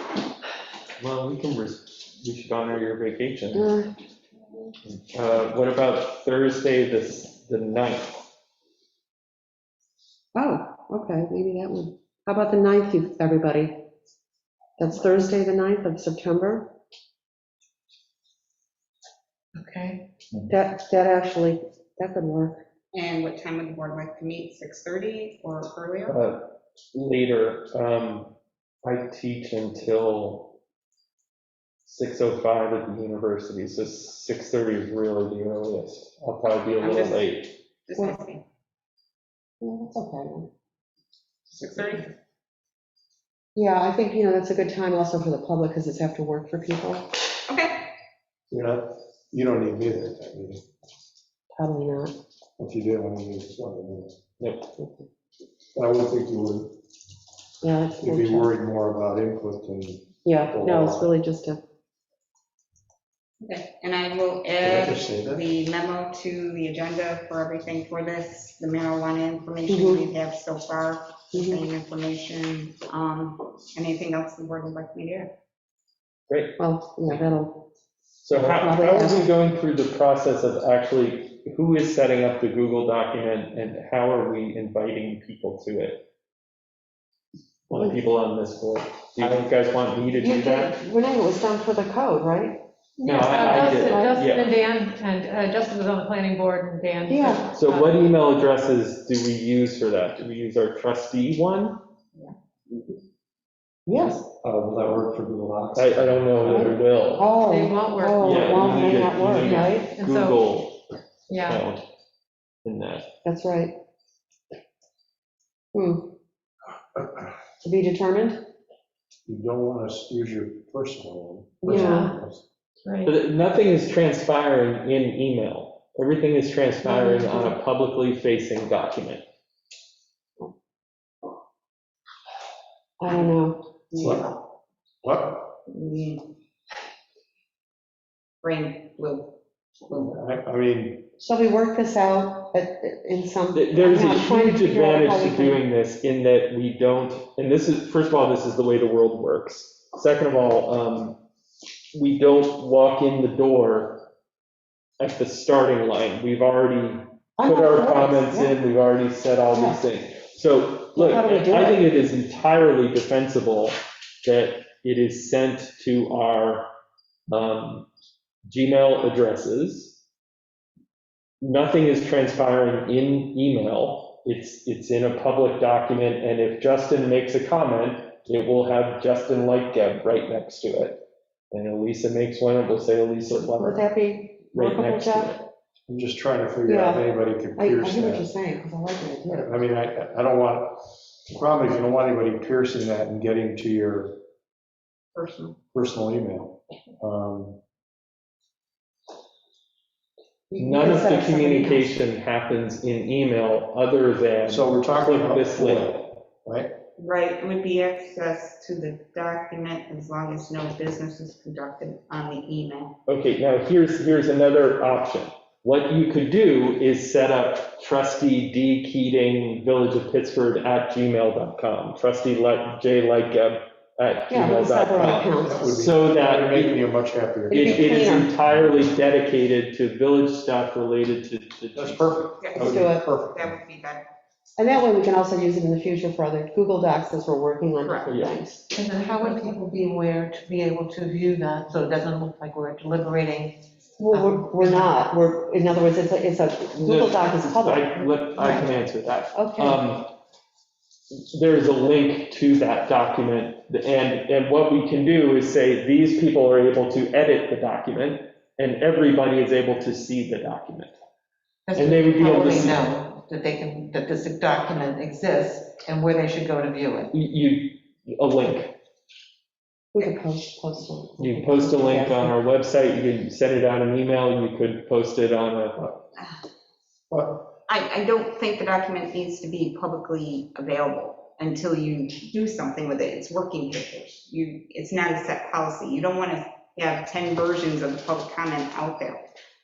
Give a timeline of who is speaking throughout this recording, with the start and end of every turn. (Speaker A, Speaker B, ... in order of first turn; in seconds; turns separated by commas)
Speaker A: 1.0-3.7, Speaker B: 3.5-3.9, Speaker A: 4.8-8.2, Speaker B: 10.3-13.9, Speaker B: 14.8-16.7, Speaker C: 19.6-20.0, Speaker B: 20.5-22.6, Speaker D: 22.9-26.2, Speaker A: 26.1-30.6, Speaker A: 31.8-37.6, Speaker D: 36.8-37.2, Speaker D: 37.9-38.4, Speaker B: 39.6-40.5, Speaker D: 41.5-42.1, Speaker B: 43.5-47.1, Speaker D: 47.5-47.9, Speaker E: 48.5-50.6, Speaker B: 51.5-52.1, Speaker E: 52.6-54.2, Speaker A: 54.4-54.7, Speaker B: 54.8-55.1, Speaker E: 55.8-56.8, Speaker B: 57.6-58.5, Speaker E: 58.0-61.1, Speaker B: 60.2-61.6, Speaker D: 63.4-75.3, Speaker E: 64.6-65.5, Speaker B: 69.7-70.0, Speaker B: 71.3-71.6, Speaker A: 76.3-77.2, Speaker B: 76.6-77.7, Speaker A: 78.2-86.0, Speaker B: 78.3-79.3, Speaker A: 87.7-90.8, Speaker B: 87.7-88.0, Speaker B: 90.2-92.6, Speaker F: 93.0-98.0, Speaker A: 93.1-94.5, Speaker B: 93.3-94.2, Speaker B: 97.1-97.5, Speaker A: 97.5-101.8, Speaker B: 103.9-104.2, Speaker E: 104.0-106.7, Speaker A: 105.8-107.3, Speaker B: 106.5-109.9, Speaker F: 107.2-108.5, Speaker A: 108.2-111.8, Speaker F: 109.4-110.4, Speaker F: 111.3-111.6, Speaker A: 112.6-113.1, Speaker B: 113.2-113.8, Speaker B: 115.7-116.1, Speaker E: 117.0-117.2, Speaker B: 117.6-118.4, Speaker E: 119.3-122.4, Speaker B: 121.6-122.2, Speaker F: 121.7-122.1, Speaker F: 122.9-123.1, Speaker A: 123.0-129.2, Speaker B: 126.8-127.5, Speaker B: 133.0-133.7, Speaker D: 133.9-134.3, Speaker E: 133.9-134.3, Speaker E: 135.0-135.6, Speaker D: 135.7-136.3, Speaker D: 138.4-140.2, Speaker E: 139.9-141.1, Speaker B: 141.2-145.6, Speaker A: 143.5-151.2, Speaker A: 151.9-154.1, Speaker A: 155.0-166.7, Speaker B: 157.4-158.6, Speaker B: 159.5-159.8, Speaker B: 160.9-161.8, Speaker A: 167.3-167.9, Speaker A: 168.5-170.0, Speaker A: 171.4-183.9, Speaker B: 183.4-185.3, Speaker A: 184.5-185.5, Speaker E: 185.9-188.3, Speaker B: 186.7-189.6, Speaker E: 189.3-194.2, Speaker D: 195.2-195.6, Speaker E: 195.7-197.6, Speaker B: 200.5-202.0, Speaker A: 200.6-206.0, Speaker E: 204.5-206.7, Speaker D: 207.0-213.0, Speaker A: 213.1-226.8, Speaker B: 224.3-225.8, Speaker E: 225.4-228.1, Speaker A: 227.5-232.1, Speaker B: 227.5-228.3, Speaker E: 231.8-233.6, Speaker D: 232.4-234.1, Speaker B: 232.5-233.1, Speaker B: 234.6-238.6, Speaker D: 237.8-238.1, Speaker A: 238.1-238.4, Speaker C: 238.7-243.6, Speaker B: 244.0-248.2, Speaker C: 244.1-244.9, Speaker A: 246.7-250.1, Speaker C: 248.4-248.7, Speaker B: 249.3-249.8, Speaker A: 251.1-261.0, Speaker C: 261.7-267.1, Speaker A: 261.7-262.9, Speaker A: 267.1-268.8, Speaker B: 269.9-272.4, Speaker A: 271.2-275.8, Speaker D: 276.2-276.4, Speaker E: 277.1-277.5, Speaker D: 277.7-289.2